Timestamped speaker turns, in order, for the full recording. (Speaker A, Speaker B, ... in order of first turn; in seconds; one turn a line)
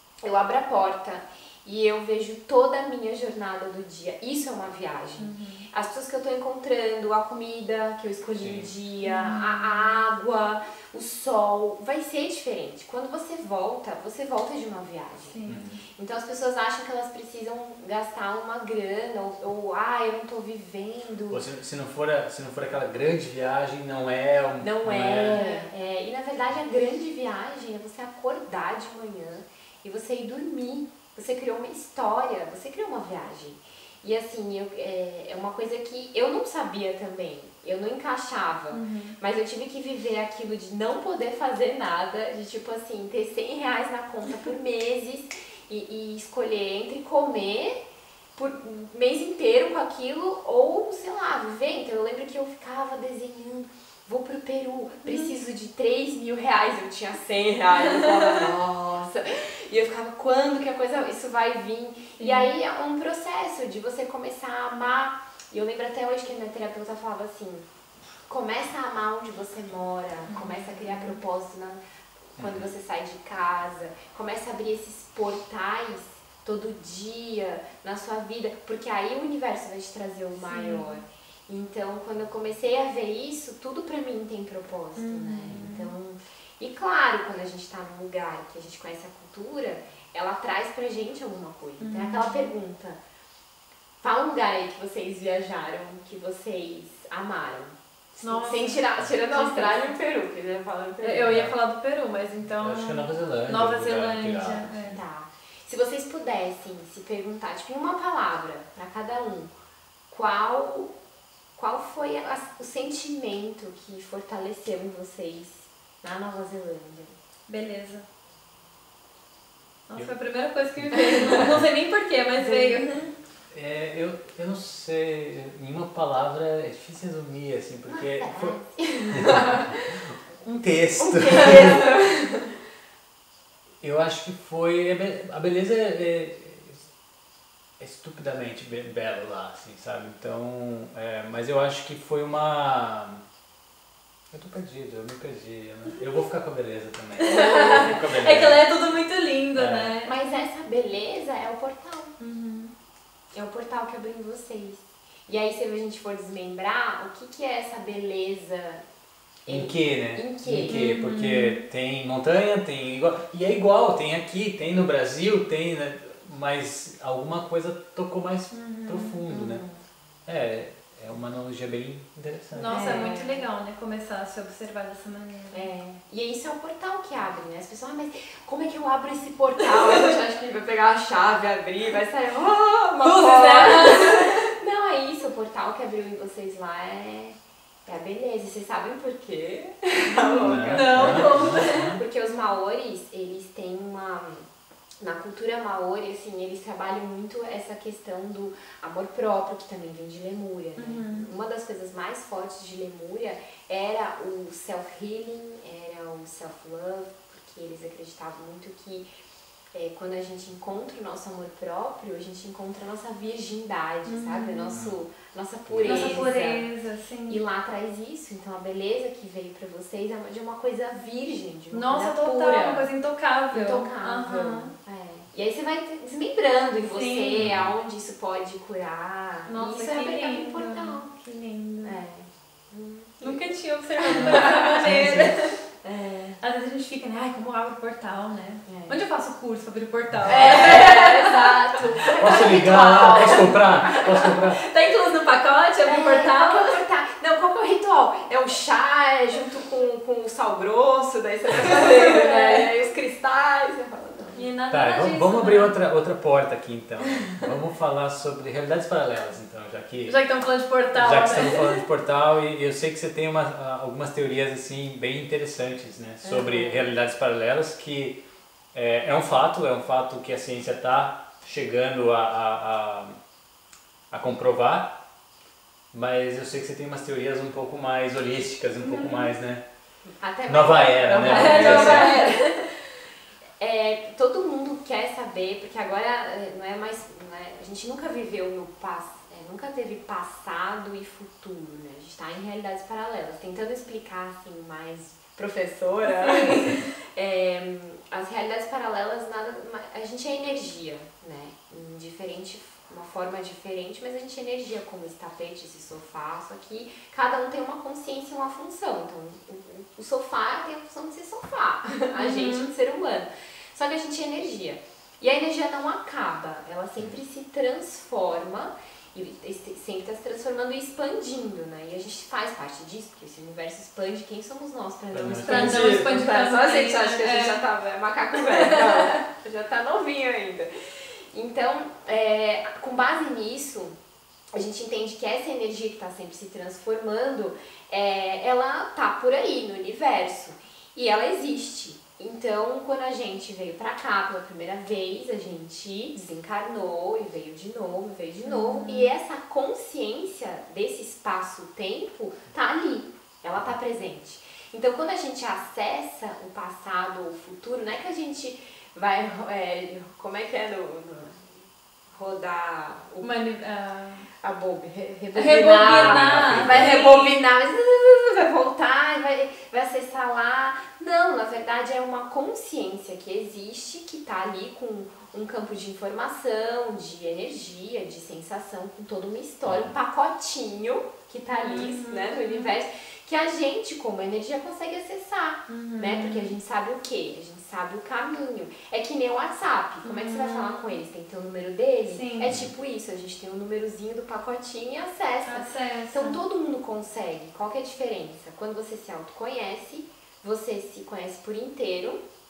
Speaker A: 0.2-15.4
Speaker B: 5.2-5.7
Speaker C: 8.4-8.7
Speaker B: 9.0-9.7
Speaker B: 15.3-15.7
Speaker C: 15.5-15.8
Speaker A: 15.9-21.4
Speaker C: 21.3-25.4
Speaker A: 24.6-47.8
Speaker B: 25.2-25.7
Speaker B: 38.7-39.2
Speaker A: 48.4-67.7
Speaker B: 55.0-55.3
Speaker B: 62.2-62.5
Speaker A: 68.3-71.8
Speaker B: 70.3-71.2
Speaker A: 72.4-93.0
Speaker C: 72.4-72.7
Speaker B: 80.5-80.9
Speaker B: 85.0-85.9
Speaker B: 91.8-92.5
Speaker A: 94.0-101.4
Speaker B: 98.2-99.9
Speaker B: 101.0-105.0
Speaker C: 101.2-101.5
Speaker C: 102.6-105.0
Speaker A: 104.9-109.5
Speaker A: 110.1-111.0
Speaker A: 111.5-117.2
Speaker B: 117.5-118.0
Speaker B: 119.9-123.1
Speaker C: 120.8-121.6
Speaker A: 120.9-121.5
Speaker A: 122.4-122.9
Speaker C: 123.5-128.6
Speaker A: 127.9-130.0
Speaker C: 129.1-131.9
Speaker A: 131.0-132.5
Speaker C: 133.8-136.8
Speaker C: 137.8-143.2
Speaker C: 144.3-148.7
Speaker B: 147.2-150.1
Speaker A: 147.5-147.8
Speaker C: 149.6-150.0
Speaker A: 150.0-152.2
Speaker B: 152.2-152.7
Speaker A: 153.3-158.8
Speaker A: 159.4-160.9
Speaker C: 159.5-169.6
Speaker B: 160.7-161.6
Speaker B: 168.5-169.2
Speaker A: 169.3-169.8
Speaker C: 170.3-173.1
Speaker B: 172.5-175.7
Speaker A: 172.7-173.5
Speaker A: 175.5-194.5
Speaker B: 183.0-184.5
Speaker B: 190.1-192.0
Speaker C: 190.4-192.0
Speaker A: 195.0-209.1
Speaker B: 200.8-201.3
Speaker A: 209.7-216.7
Speaker B: 214.1-214.8
Speaker C: 215.7-216.3
Speaker B: 215.8-217.4
Speaker A: 217.3-222.9
Speaker B: 221.7-224.7
Speaker A: 223.5-231.1
Speaker B: 226.9-227.5
Speaker C: 227.4-227.7
Speaker B: 229.5-232.0
Speaker A: 231.8-233.4
Speaker B: 233.2-235.6
Speaker A: 234.0-236.4
Speaker C: 234.2-235.4
Speaker B: 236.4-246.8
Speaker A: 238.7-239.0
Speaker A: 240.3-244.3
Speaker C: 242.2-244.6
Speaker A: 245.9-254.5
Speaker B: 251.9-252.6
Speaker B: 254.3-255.7
Speaker C: 254.7-260.2
Speaker B: 260.1-261.8
Speaker C: 260.9-268.2
Speaker A: 266.2-266.8
Speaker C: 268.7-273.2
Speaker C: 274.1-274.9
Speaker C: 275.9-279.6
Speaker B: 278.9-279.2
Speaker A: 280.2-282.7
Speaker C: 280.5-282.2
Speaker B: 281.2-282.6
Speaker A: 283.6-330.7
Speaker B: 296.2-296.7
Speaker B: 312.1-312.7
Speaker C: 325.1-326.3
Speaker B: 325.4-327.6
Speaker B: 328.4-329.2
Speaker A: 331.3-333.9
Speaker A: 334.5-363.3
Speaker B: 348.4-349.1
Speaker B: 363.2-364.3
Speaker A: 364.4-402.2
Speaker B: 365.3-367.4
Speaker C: 365.9-366.9
Speaker C: 379.7-379.9
Speaker B: 381.6-382.7
Speaker B: 385.7-386.5
Speaker B: 390.0-391.0
Speaker B: 392.1-392.5
Speaker B: 395.5-396.4